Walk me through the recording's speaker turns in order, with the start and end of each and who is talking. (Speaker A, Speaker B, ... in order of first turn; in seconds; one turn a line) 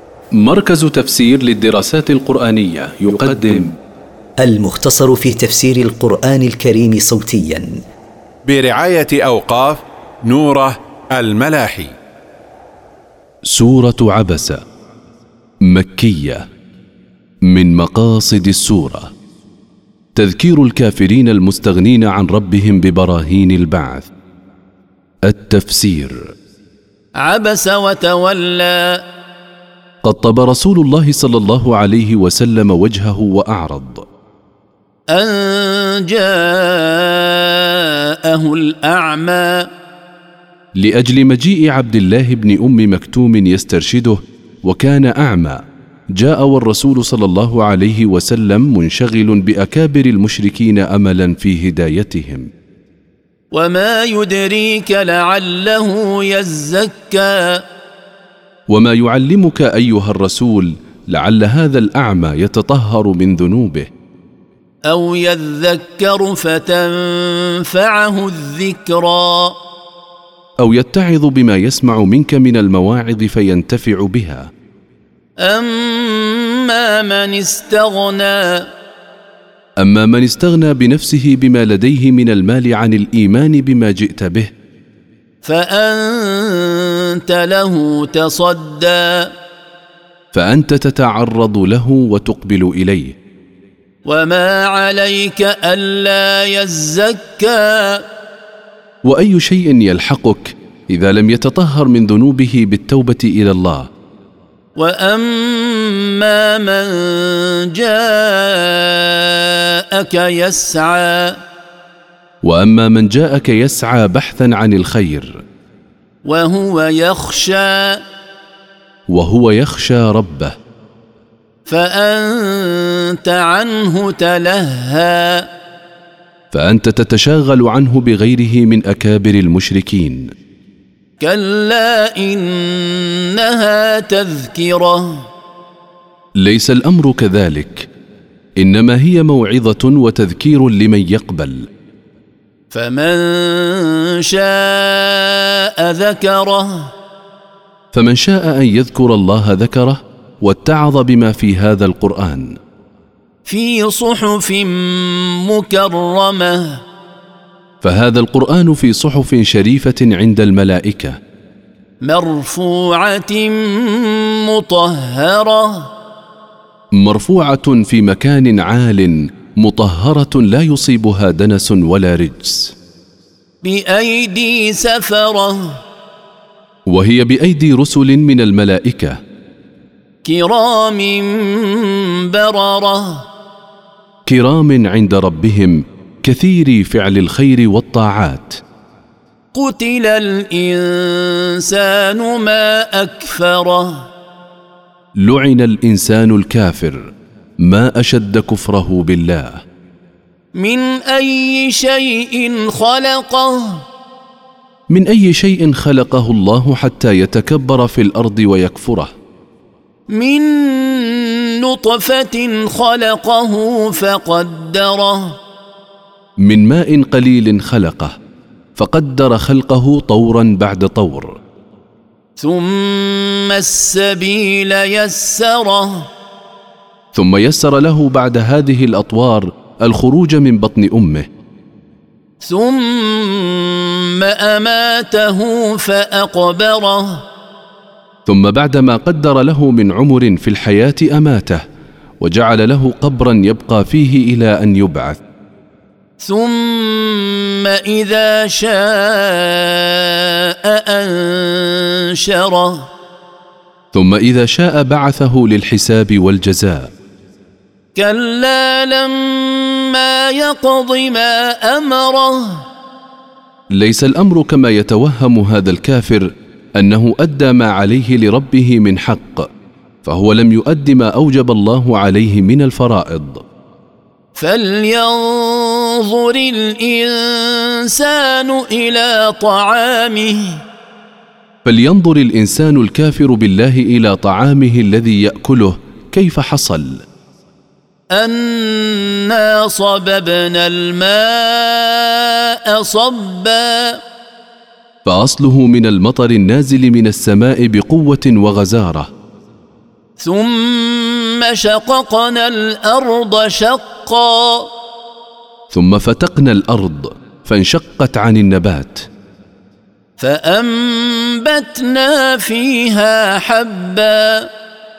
Speaker A: 0.3-3.7
Speaker B: 4.4-7.8
Speaker C: 8.4-11.9
Speaker A: 13.4-14.6
Speaker A: 15.6-16.4
Speaker A: 17.4-19.1
Speaker A: 20.1-24.1
Speaker A: 25.2-26.2
Speaker D: 27.2-29.0
Speaker A: 30.0-34.0
Speaker D: 35.1-39.7
Speaker A: 40.8-45.6
Speaker A: 46.1-52.5
Speaker D: 53.5-57.6
Speaker A: 58.7-63.9
Speaker D: 64.9-69.5
Speaker A: 70.6-74.5
Speaker D: 75.4-78.7
Speaker A: 79.8-84.5
Speaker D: 85.4-89.3
Speaker A: 90.3-93.1
Speaker D: 94.0-98.0
Speaker A: 99.0-103.9
Speaker D: 104.8-111.4
Speaker A: 112.4-115.4
Speaker D: 116.2-118.0
Speaker A: 119.1-120.5
Speaker D: 121.7-125.5
Speaker A: 126.5-130.3
Speaker D: 131.2-135.3
Speaker A: 136.4-137.9
Speaker A: 138.6-141.7
Speaker D: 142.7-146.9
Speaker A: 147.9-152.5
Speaker D: 153.4-156.8
Speaker A: 157.8-161.2
Speaker D: 162.0-165.9
Speaker A: 166.9-172.7
Speaker D: 173.6-175.8
Speaker A: 176.9-179.2
Speaker D: 180.2-183.3
Speaker A: 184.3-188.6
Speaker D: 189.5-194.1
Speaker A: 195.2-197.1
Speaker A: 197.6-199.6
Speaker D: 200.6-203.8
Speaker A: 204.9-209.1
Speaker D: 210.1-215.4
Speaker A: 216.4-218.1
Speaker A: 218.8-221.3
Speaker D: 222.4-226.1
Speaker A: 227.1-231.2
Speaker D: 232.4-237.2
Speaker A: 238.3-241.6
Speaker A: 242.2-245.2
Speaker D: 246.2-252.9
Speaker A: 253.9-256.9
Speaker D: 257.9-262.6
Speaker A: 263.7-269.5
Speaker A: 270.0-273.4
Speaker D: 274.4-280.6
Speaker A: 281.6-287.0
Speaker D: 288.1-294.0
Speaker A: 295.0-299.1
Speaker D: 300.2-304.7
Speaker A: 305.7-309.0
Speaker D: 310.2-314.4